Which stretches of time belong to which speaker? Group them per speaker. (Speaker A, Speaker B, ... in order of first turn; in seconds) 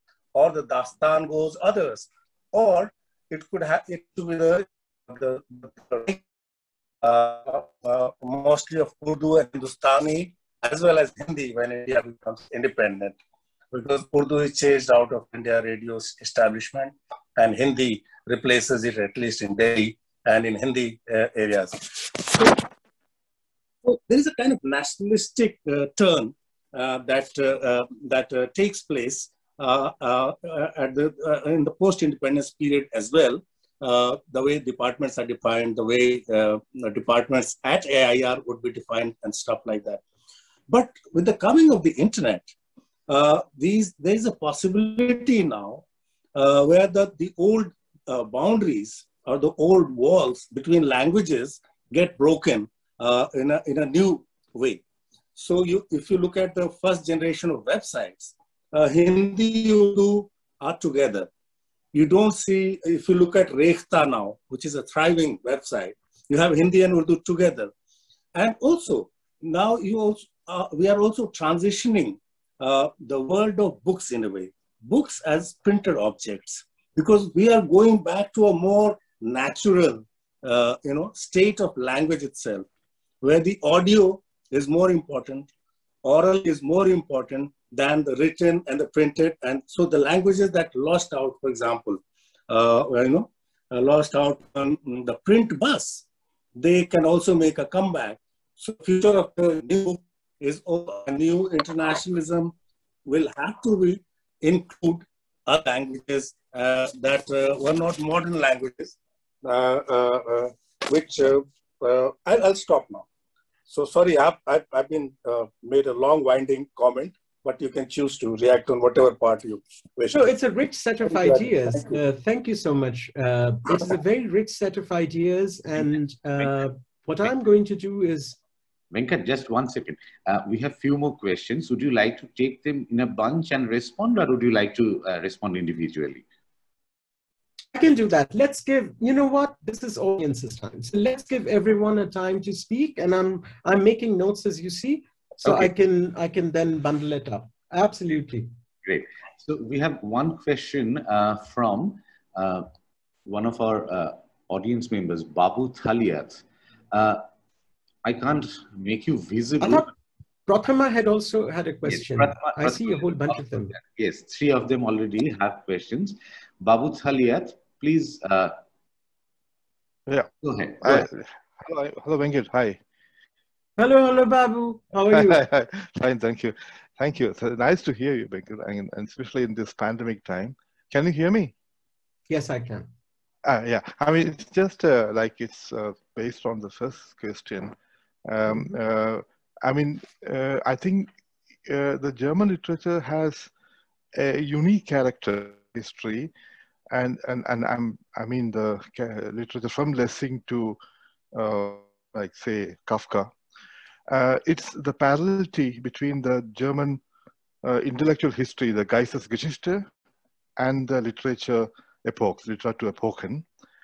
Speaker A: 0.3-6.2, 7.0-13.2, 13.7-22.6, 23.9-40.0, 40.7-42.5, 43.1-45.8, 46.4-54.8, 55.4-61.3, 61.9-67.7, 68.3-82.7, 83.2-85.5, 86.0-96.0, 96.6-102.5, 103.1-113.1, 113.7-120.2, 121.1-121.8
Speaker B: 120.1-128.4, 137.7-148.5, 159.6-159.9, 160.5-163.8, 173.8-175.4, 182.3-182.9
Speaker C: 128.9-136.2, 148.8-152.7, 153.3-157.2, 158.0-159.9, 161.9-168.6, 170.4-171.1
Speaker D: 170.8-172.8, 175.1-181.5, 183.5-187.8, 188.3-191.1, 191.7-193.5, 194.2-196.3, 196.9-200.8, 201.3-203.3, 204.1-207.0, 207.6-209.9, 210.6-213.4